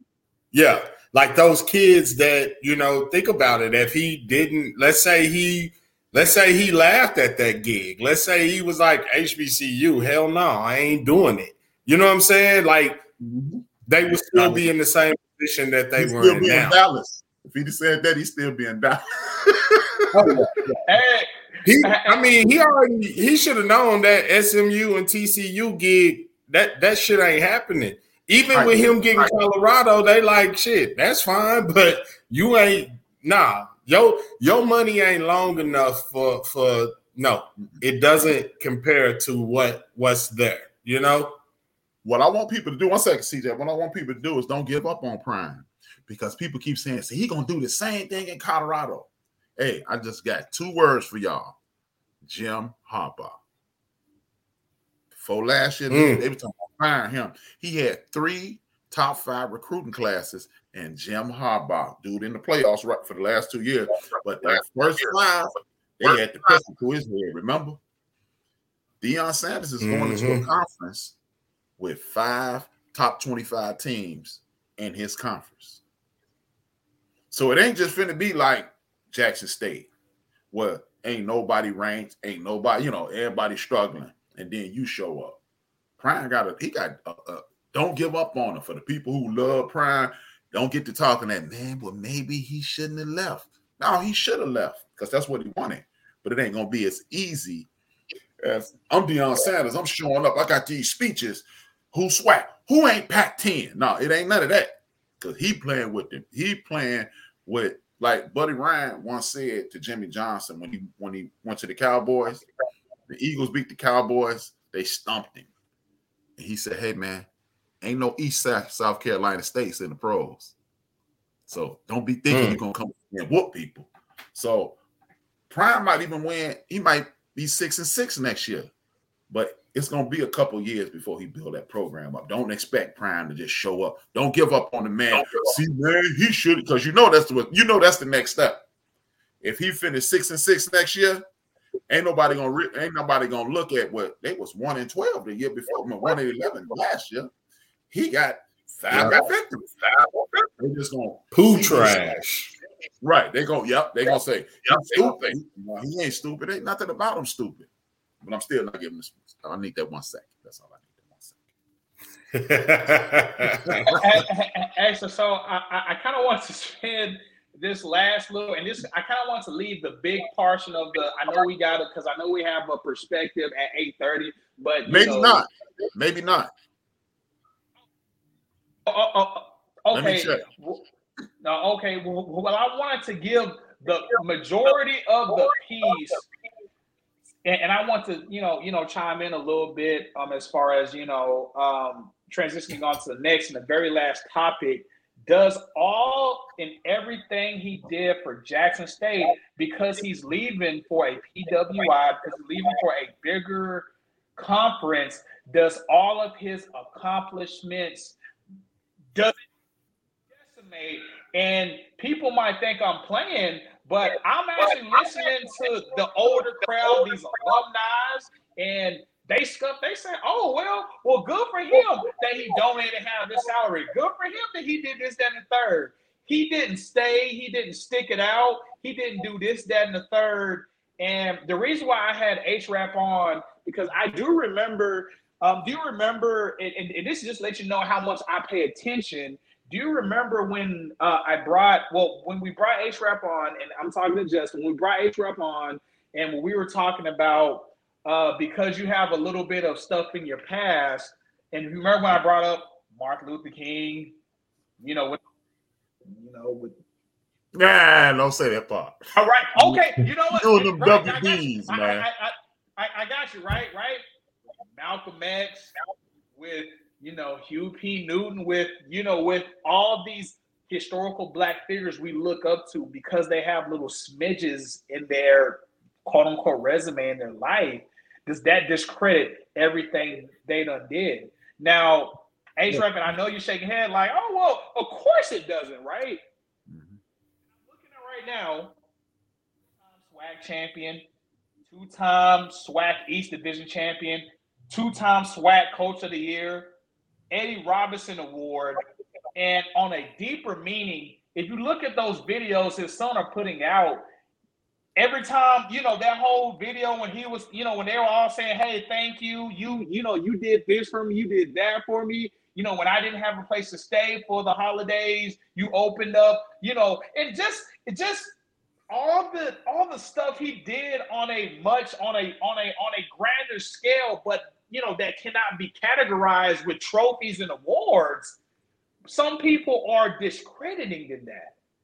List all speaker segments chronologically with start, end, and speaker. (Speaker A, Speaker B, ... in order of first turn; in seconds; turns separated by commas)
Speaker A: 0.5-13.0, Speaker B: 13.2-13.6, Speaker A: 13.9-16.8, Speaker B: 14.3-14.7, Speaker B: 16.0-20.7, Speaker A: 20.1-20.6, Speaker C: 20.9-21.3, Speaker A: 21.6-41.3, Speaker C: 21.8-22.2, Speaker B: 28.5-29.3, Speaker B: 42.0-51.5, Speaker B: 52.2-53.3, Speaker B: 55.1-67.8, Speaker A: 55.9-56.2, Speaker B: 69.0-71.1, Speaker A: 69.8-70.5, Speaker B: 71.8-75.8, Speaker B: 77.3-79.9, Speaker B: 80.5-85.4, Speaker B: 86.0-97.7, Speaker B: 98.4-112.5, Speaker B: 113.1-115.5, Speaker B: 116.4-117.3, Speaker B: 117.8-120.5, Speaker B: 121.5-124.8, Speaker A: 122.3-122.6, Speaker B: 125.5-128.7, Speaker B: 129.3-138.6, Speaker B: 139.4-141.2, Speaker B: 141.9-147.3, Speaker B: 147.9-149.8, Speaker A: 148.9-149.2, Speaker B: 150.6-152.2, Speaker A: 151.3-152.5, Speaker B: 153.0-157.7, Speaker B: 158.2-161.4, Speaker A: 162.3-164.0, Speaker B: 163.4-163.9, Speaker C: 163.9-175.4, Speaker B: 174.9-176.5, Speaker C: 178.9-180.8, Speaker B: 179.9-180.4, Speaker C: 181.4-186.2, Speaker C: 187.4-208.2, Speaker C: 210.3-254.1, Speaker C: 254.8-255.2, Speaker C: 256.1-256.8, Speaker B: 257.5-259.1, Speaker C: 259.1-264.0, Speaker B: 260.3-262.1, Speaker C: 264.7-265.7, Speaker C: 266.4-286.2, Speaker B: 286.7-287.0, Speaker C: 287.6-288.7, Speaker C: 289.9-291.0, Speaker C: 291.7-296.7, Speaker C: 297.3-298.8, Speaker C: 299.4-304.1, Speaker C: 305.0-318.3, Speaker C: 318.9-328.4, Speaker C: 329.1-331.5